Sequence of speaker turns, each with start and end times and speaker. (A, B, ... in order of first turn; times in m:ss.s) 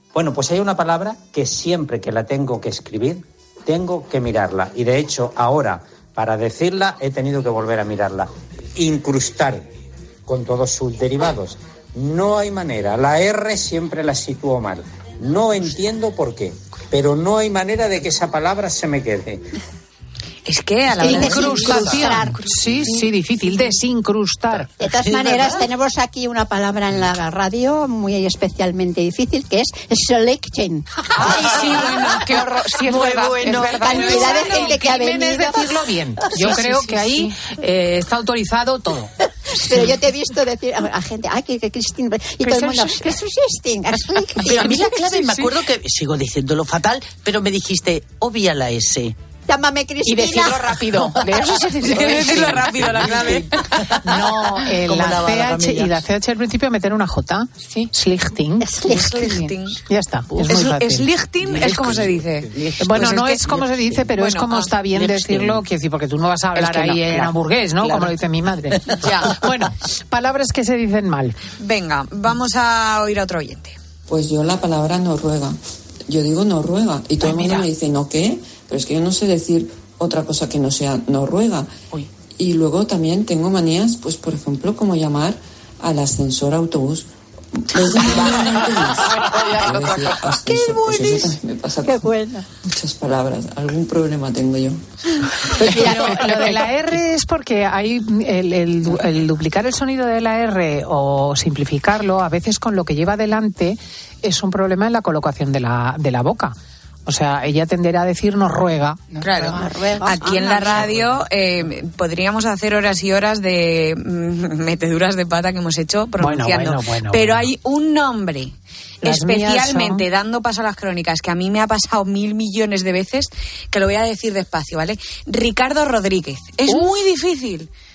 0:00.1-0:09.7 A
0:10.3-0:19.5 A
0:20.5-0:22.2 B
0:21.0-0:23.0 C
0:21.0-0:24.7 D
0:24.8-0:31.9 C
0:31.2-0:34.7 E
0:31.3-0:32.4 B
0:31.4-0:32.2 D
0:32.9-0:39.1 D
0:32.9-0:34.7 B
0:33.8-0:35.8 C
0:36.4-0:37.3 E
0:39.5-0:44.9 C
0:42.5-0:43.0 E
0:44.4-0:49.2 F
0:45.1-0:45.4 E
0:49.5-0:51.6 C
0:50.0-0:52.8 E
0:51.5-0:53.6 B
0:54.0-0:55.9 F
0:54.1-0:58.7 D
0:57.6-0:57.9 E
0:58.6-0:59.4 C
0:58.8-0:59.8 B
0:59.9-1:01.0 D
1:00.4-1:05.6 B
1:01.4-1:03.0 F
1:02.8-1:11.4 D
1:06.6-1:07.3 E
1:07.8-1:08.1 F
1:09.0-1:09.3 B
1:11.6-1:13.8 B
1:14.1-1:15.6 G
1:16.1-1:21.7 G
1:17.2-1:17.7 B
1:22.4-1:27.1 G
1:27.6-1:32.1 G
1:29.0-1:30.2 E
1:30.6-1:31.3 C
1:31.8-1:32.4 C
1:32.7-1:34.8 G
1:35.6-1:36.6 C
1:35.7-1:46.6 D
1:47.1-1:49.0 D
1:49.1-1:49.5 E
1:49.2-2:07.7 B
1:49.4-1:50.8 C
1:56.2-1:57.5 D
1:59.0-2:00.0 D